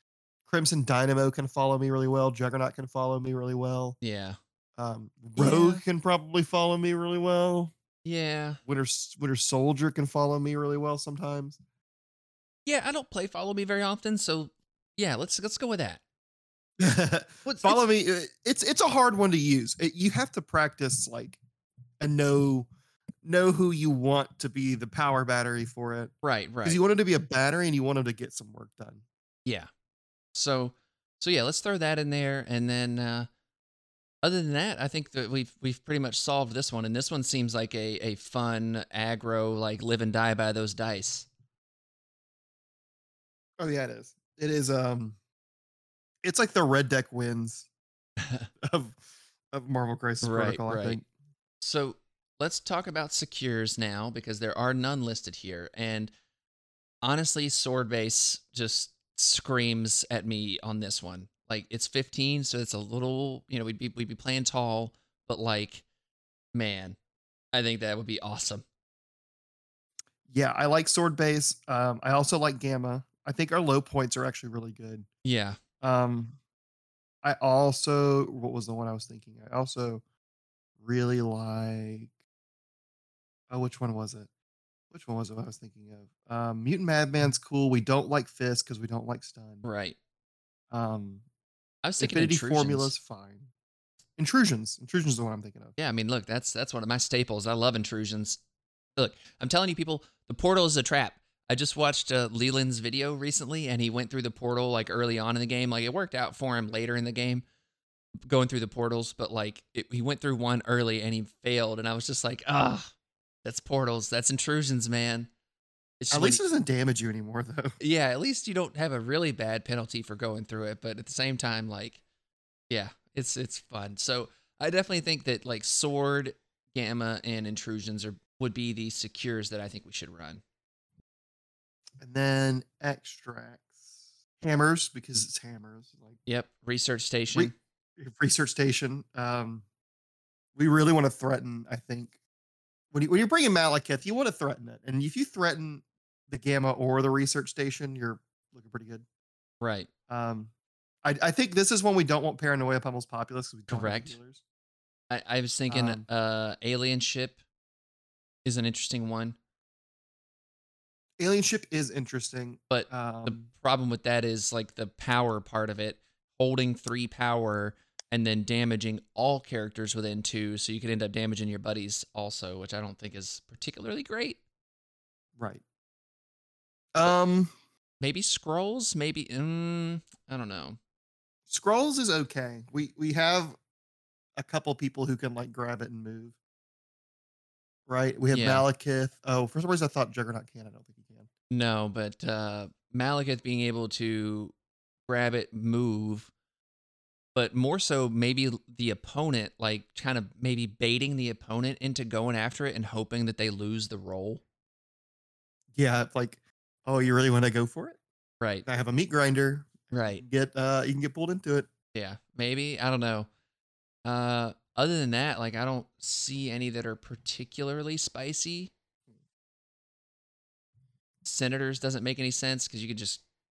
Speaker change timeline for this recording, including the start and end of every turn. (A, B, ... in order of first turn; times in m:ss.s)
0:00.4-0:04.0 A
0:04.0-0:04.4 B
0:04.8-0:07.7 A
0:05.4-0:05.8 B
0:08.0-0:08.6 B
0:08.7-0:11.6 A
0:12.7-0:16.0 B
0:16.8-0:21.4 A
0:17.4-0:17.8 B
0:22.0-0:22.7 A
0:23.2-0:26.1 A
0:26.2-0:26.8 B
0:26.6-0:29.0 A
0:30.3-0:33.3 B
0:34.2-0:41.3 B
0:43.6-0:45.2 A
0:46.2-0:47.7 A
0:48.2-0:48.5 B
0:48.6-0:49.0 A
0:49.5-0:51.0 A
0:50.2-0:51.0 B
0:51.6-0:56.1 B
0:57.0-1:05.8 B
1:06.6-1:07.0 B
1:07.5-1:08.6 B
1:10.3-1:15.1 A
1:15.2-1:15.6 B
1:15.8-1:16.4 A
1:17.2-1:20.0 A
1:20.8-1:22.1 A
1:23.5-1:24.3 A
1:24.9-1:29.6 A
1:29.6-1:30.0 B
1:30.7-1:31.2 A
1:31.8-1:32.9 B
1:32.0-1:33.5 A
1:34.2-1:35.7 A
1:35.8-1:38.4 B
1:39.0-1:47.4 B
1:48.3-1:52.9 B
1:53.4-1:55.3 B
1:56.0-1:56.4 B
1:56.1-1:57.8 A
1:57.8-2:02.0 B
2:02.7-2:10.4 B
2:12.0-2:16.2 A
2:16.3-2:17.5 B
2:17.3-2:19.6 A
2:20.6-2:22.1 A
2:22.9-2:29.0 A
2:29.6-2:29.9 B
2:30.1-2:30.5 A
2:31.0-2:34.4 A
2:33.7-2:34.2 B
2:35.1-2:37.4 B
2:35.7-2:36.0 A
2:38.4-2:39.4 B
2:41.2-2:43.4 A
2:42.7-2:54.4 B
2:55.4-2:55.6 A
2:56.9-2:57.6 A
2:58.0-3:00.8 B
3:01.5-3:03.6 A
3:04.4-3:06.4 A
3:07.9-3:11.3 A
3:08.3-3:08.7 B
3:11.5-3:14.5 B
3:15.1-3:16.3 B
3:17.4-3:24.4 B
3:25.7-3:28.0 A
3:28.6-3:31.7 A
3:29.9-3:30.2 B
3:31.9-3:33.3 B
3:34.0-3:38.7 B
3:41.2-3:43.2 B